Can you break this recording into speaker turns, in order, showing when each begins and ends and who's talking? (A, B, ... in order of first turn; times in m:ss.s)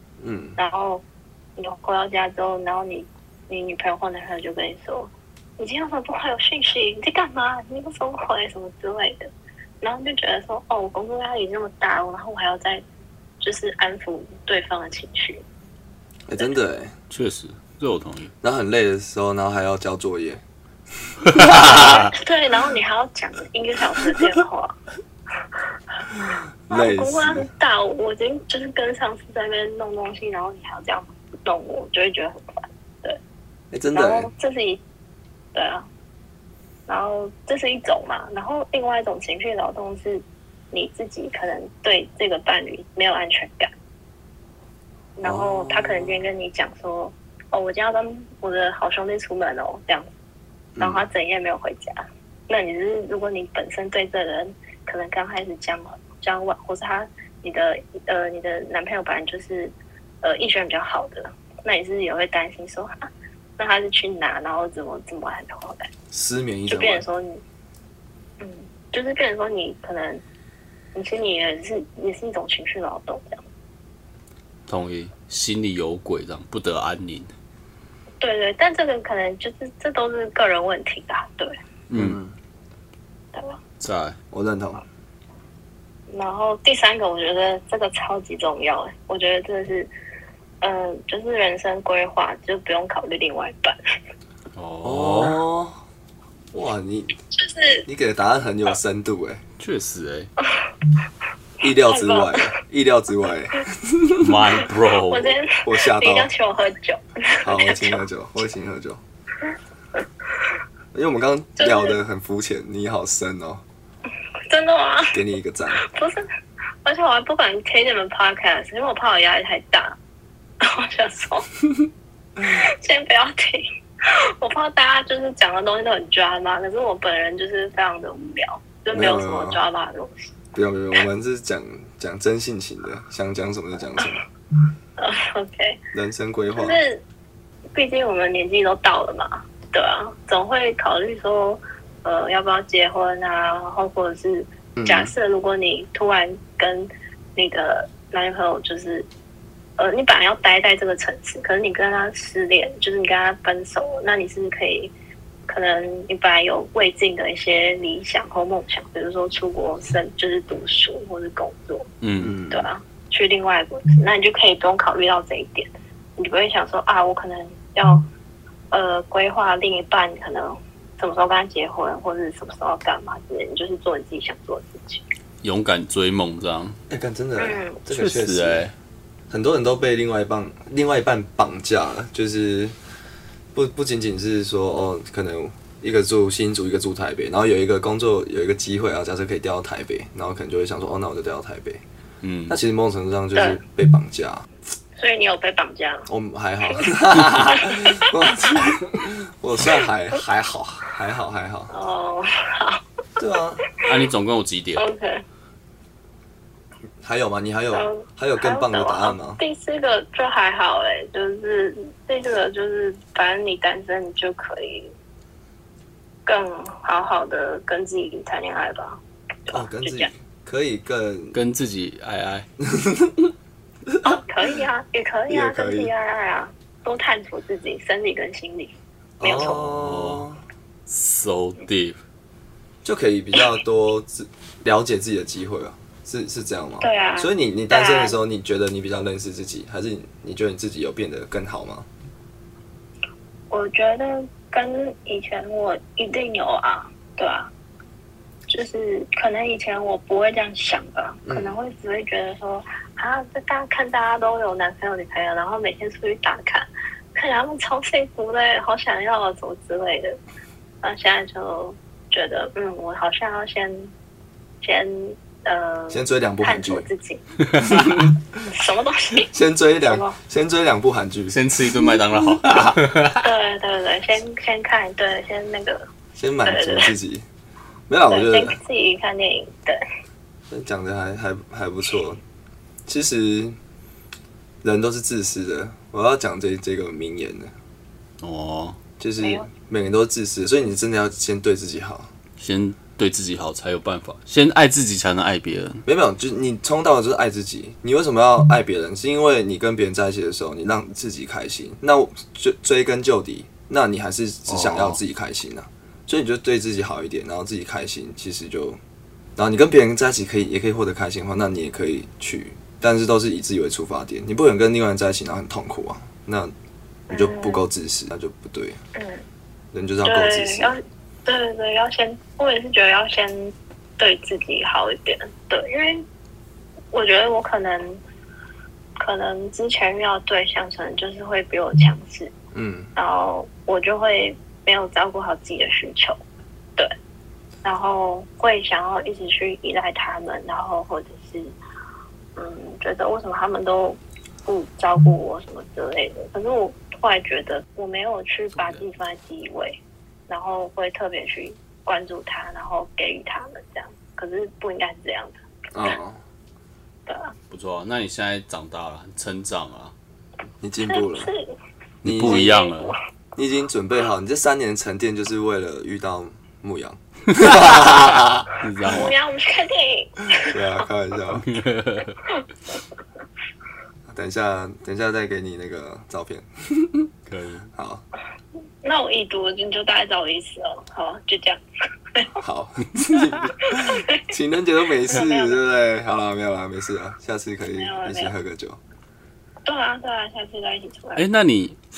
0:00.2-0:00.6 A
0:00.6-0:01.0 B
0:01.6-0:12.8 B
0:13.4-0:15.4 B
0:16.3-0:17.0 A
0:17.1-0:18.3 C
0:18.4-0:20.4 A
0:21.3-0:22.1 C
0:21.3-0:22.1 A
0:21.6-0:24.8 B
0:26.1-0:27.5 A
0:26.7-0:33.2 B
0:33.7-0:34.3 A
0:33.9-0:34.8 B
0:35.5-0:35.9 B
0:36.9-0:43.7 B
0:45.2-0:50.1 B
0:45.2-0:46.2 A
0:50.8-0:51.1 A
0:50.8-1:05.9 B
1:06.1-1:07.0 A
1:06.7-1:07.4 B
1:08.4-1:10.2 B
1:11.0-1:13.4 B
1:14.7-1:17.3 C
1:18.2-1:21.6 B
1:21.9-1:22.2 C
1:21.9-1:22.4 A
1:23.3-1:23.6 B
1:23.8-1:24.2 C
1:24.3-1:24.8 A
1:26.1-1:29.9 B
1:30.6-1:33.8 B
1:34.6-1:35.4 C
1:34.8-1:35.8 A
1:36.5-1:37.2 A
1:37.3-1:37.9 B
1:37.9-1:39.4 A
1:39.6-1:40.3 C
1:40.4-1:40.9 B
1:41.6-1:44.3 A
1:41.6-1:42.5 B
1:44.2-1:45.3 C
1:45.1-1:48.0 B
1:45.6-1:46.3 A
1:47.4-1:49.0 A
1:50.9-1:53.6 A
1:51.6-1:52.0 B
1:54.5-1:55.2 B
1:55.1-1:55.8 A
1:55.8-1:56.3 B
1:56.8-2:00.0 B
2:00.6-2:01.5 B
2:02.4-2:10.3 B
2:08.9-2:09.6 A
2:10.5-2:14.2 A
2:15.0-2:15.8 B
2:15.9-2:16.8 A
2:16.6-2:17.0 B
2:17.7-2:29.1 B
2:24.8-2:25.1 A
2:29.8-2:34.9 B
2:35.5-2:41.9 B
2:42.0-2:42.4 C
2:42.2-2:42.7 A
2:42.5-2:48.1 B
2:48.7-2:55.0 B
2:55.4-2:56.8 C
2:56.9-2:58.7 A
2:57.4-2:57.8 B
2:57.9-2:58.7 C
2:59.3-3:02.8 A
3:03.5-3:11.8 A
3:12.2-3:12.6 C
3:12.5-3:14.5 A
3:13.4-3:13.6 B
3:15.0-3:16.1 B
3:16.1-3:21.7 A
3:16.7-3:18.6 B
3:21.7-3:22.8 B
3:23.2-3:23.7 A
3:23.8-3:24.8 C
3:24.8-3:25.2 B
3:27.0-3:29.4 A
3:27.7-3:34.9 B
3:36.3-3:40.1 B
3:39.5-3:41.4 A
3:41.3-3:42.5 C
3:42.6-3:43.3 A
3:43.9-3:44.6 A
3:44.0-3:49.6 B
3:45.3-3:45.9 A
3:49.2-3:50.4 A
3:49.3-3:50.3 C
3:50.9-3:52.0 C
3:52.8-4:01.9 A
3:56.8-3:58.2 B
4:03.5-4:07.5 B
4:08.5-4:20.2 B
4:11.3-4:11.6 A
4:20.8-4:23.9 B
4:24.6-4:27.2 B
4:25.9-4:26.9 A
4:27.4-4:27.8 C
4:27.6-4:28.5 A
4:28.5-4:29.3 B
4:29.3-4:33.0 A
4:29.8-4:30.2 B
4:31.3-4:33.3 C
4:33.2-4:35.9 B
4:36.2-4:37.3 A
4:36.4-4:36.9 B
4:37.9-4:38.6 A
4:38.1-4:39.8 B
4:40.5-4:42.2 A
4:42.9-4:43.6 A
4:44.6-4:47.5 A
4:48.2-4:48.8 C
4:49.0-4:52.1 A
4:49.2-4:49.5 B
4:52.4-4:55.8 C
4:55.8-5:08.8 A
5:04.5-5:05.0 C
5:09.4-5:16.5 A
5:17.1-5:17.6 B
5:17.1-5:18.8 A
5:19.0-5:19.2 B
5:19.7-5:20.7 A
5:20.0-5:26.0 B
5:26.9-5:28.0 B
5:29.0-5:32.3 B
5:32.5-5:32.9 A
5:33.0-5:36.2 B
5:37.6-5:41.6 B
5:42.4-5:55.4 B
5:48.6-5:48.8 C
5:55.7-5:56.2 A
5:57.1-5:57.4 B
5:57.5-5:59.9 C
6:00.6-6:01.3 A
6:00.9-6:01.6 B
6:02.0-6:03.0 C
6:02.0-6:02.6 A
6:02.2-6:03.0 B
6:03.4-6:08.5 A
6:07.3-6:07.7 C
6:08.6-6:09.1 C
6:08.8-6:10.9 B
6:10.4-6:11.5 A
6:11.3-6:12.2 C
6:14.1-6:17.1 A
6:17.3-6:17.7 C
6:17.7-6:18.0 A
6:18.8-6:21.6 B
6:22.1-6:22.4 B
6:22.4-6:28.8 A
6:23.1-6:24.3 B
6:25.1-6:25.6 B
6:27.7-6:28.3 B
6:29.6-6:31.2 B
6:31.2-6:31.8 C